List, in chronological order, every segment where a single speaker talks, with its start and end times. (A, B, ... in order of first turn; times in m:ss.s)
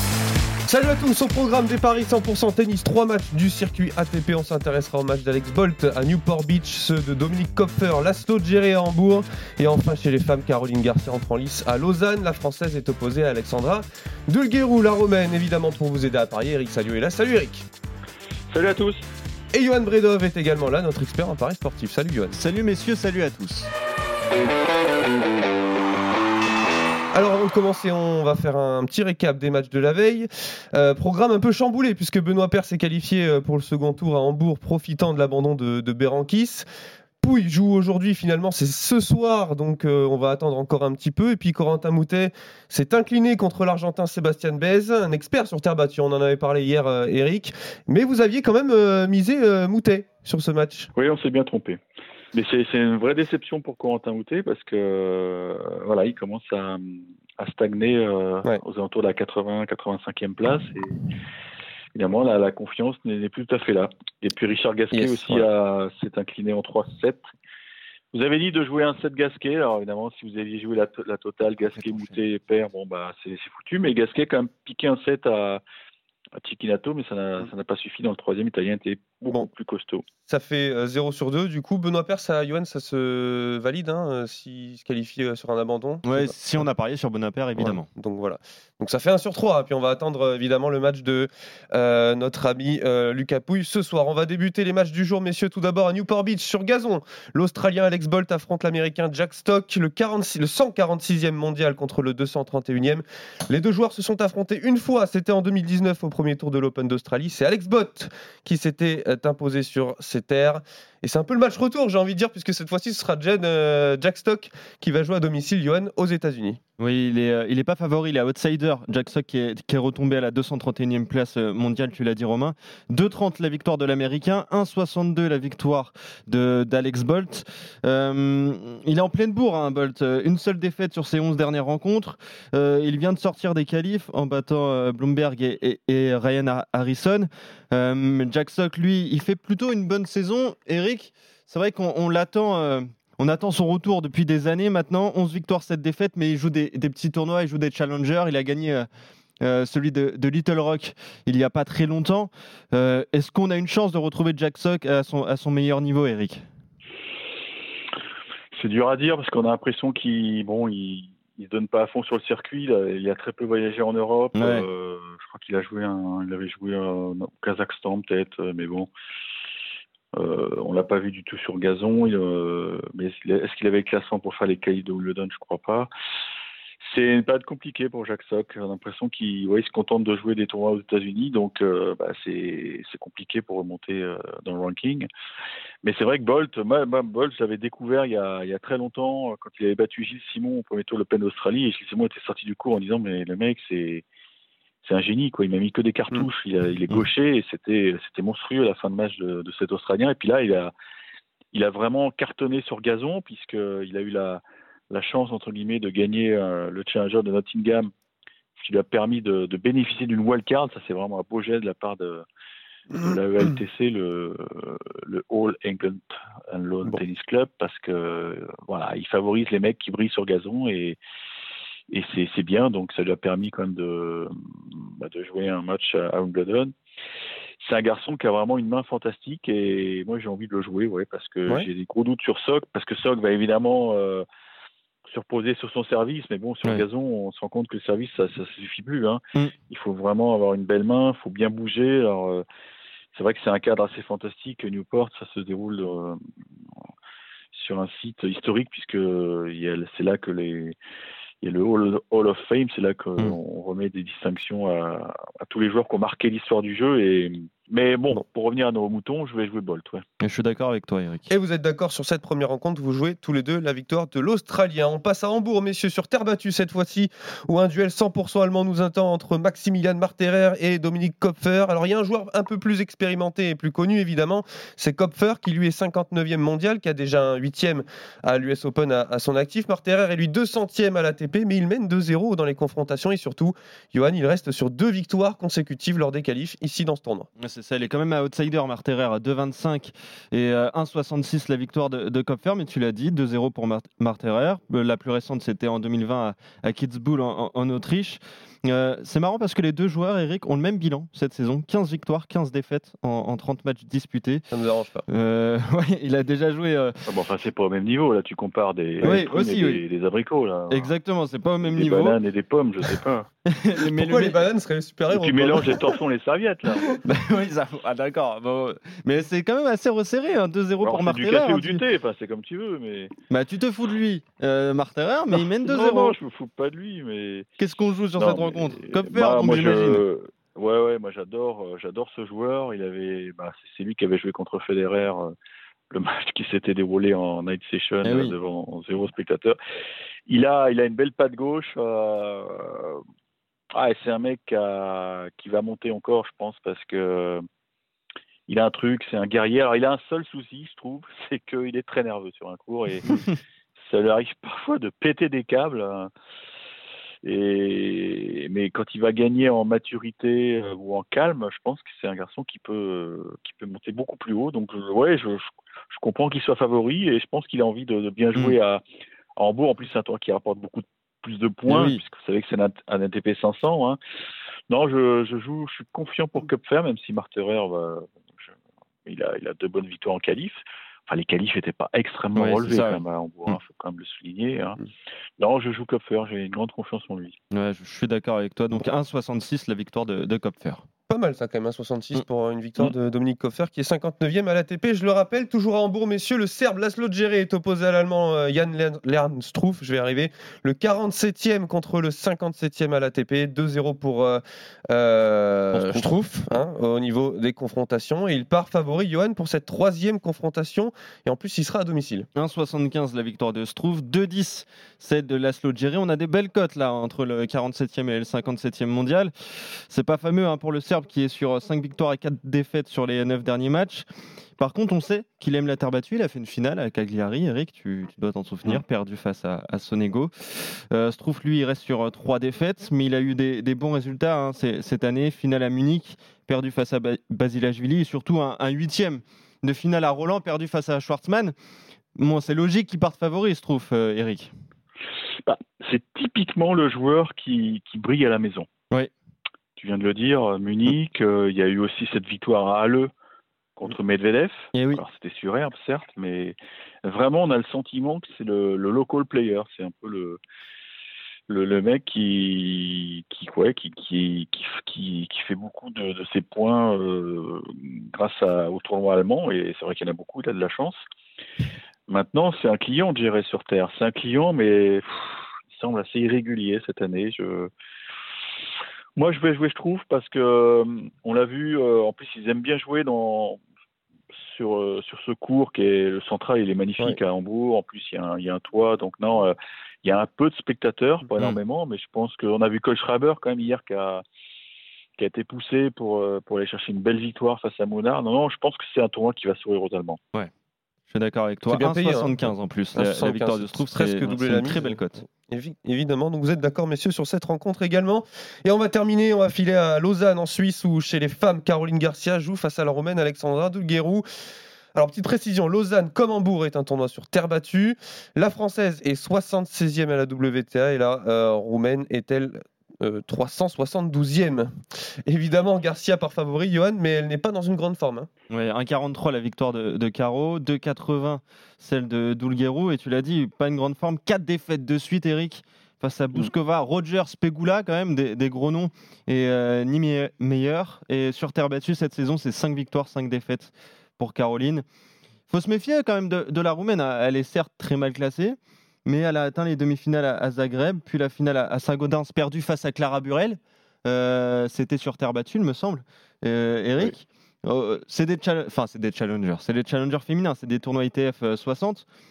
0:00.7-0:17.6 A
0:18.5-0:19.0 B
0:19.5-0:22.4 A
0:22.3-0:23.7 C
0:27.1-0:36.7 A
0:37.2-0:50.9 A
0:51.0-0:51.8 B
0:52.3-1:01.0 B
1:02.0-1:07.2 B
1:04.9-1:05.5 A
1:08.1-1:15.6 B
1:11.6-1:12.2 C
1:16.4-1:20.0 B
1:20.3-1:26.4 A
1:26.0-1:27.9 C
1:27.6-1:56.6 A
1:56.8-2:28.9 C
2:29.4-2:36.4 C
2:38.5-2:48.9 B
2:44.4-2:44.7 C
2:50.2-2:55.9 B
2:56.8-3:05.1 B
3:05.8-3:14.0 B
3:14.8-3:20.7 B
3:21.5-3:27.9 B
3:28.6-3:32.2 B
3:33.0-3:41.0 B
3:41.9-3:46.7 B
3:47.6-3:54.2 B
3:55.1-4:02.4 B
4:03.1-4:06.2 B
4:07.5-4:10.8 B
4:11.4-4:20.0 B
4:20.2-4:21.3 C
4:21.3-4:47.3 A
4:47.4-5:04.5 C
5:04.5-5:05.1 A
5:05.1-5:06.9 C
5:07.1-5:11.0 B
5:09.0-5:09.8 C
5:10.7-5:12.2 C
5:11.6-5:13.3 B
5:13.5-5:14.4 C
5:13.9-5:15.9 A
5:15.1-5:16.9 B
5:17.0-5:21.8 C
5:20.8-5:23.1 B
5:23.3-5:26.2 C
5:25.3-5:27.5 B
5:27.6-5:30.0 C
5:28.2-5:35.3 B
5:35.9-5:39.6 B
5:38.0-5:38.4 C
5:40.3-5:43.0 B
5:43.7-5:47.4 B
5:48.5-5:53.2 B
5:53.9-5:56.1 B
5:57.2-6:08.8 B
6:09.4-6:14.0 B
6:11.7-6:12.0 C
6:14.7-6:18.5 B
6:19.0-6:24.8 B
6:22.4-6:23.6 C
6:25.4-6:27.4 B
6:27.5-6:30.8 C
6:31.1-6:52.3 A
6:45.7-6:46.6 C
6:52.4-7:04.1 C
7:04.6-7:21.6 C
7:22.2-7:24.5 C
7:25.4-7:28.7 B
7:29.8-7:33.1 B
7:33.8-7:40.4 B
7:34.7-7:35.0 C
7:41.5-7:51.0 B
7:52.1-7:57.7 B
7:59.2-8:03.6 B
8:04.4-8:14.2 B
8:15.2-8:20.2 B
8:21.1-8:25.2 C
8:21.7-8:34.2 A
8:35.0-8:44.7 A
8:45.3-8:48.3 A
8:48.5-9:04.8 C
9:05.5-9:22.1 C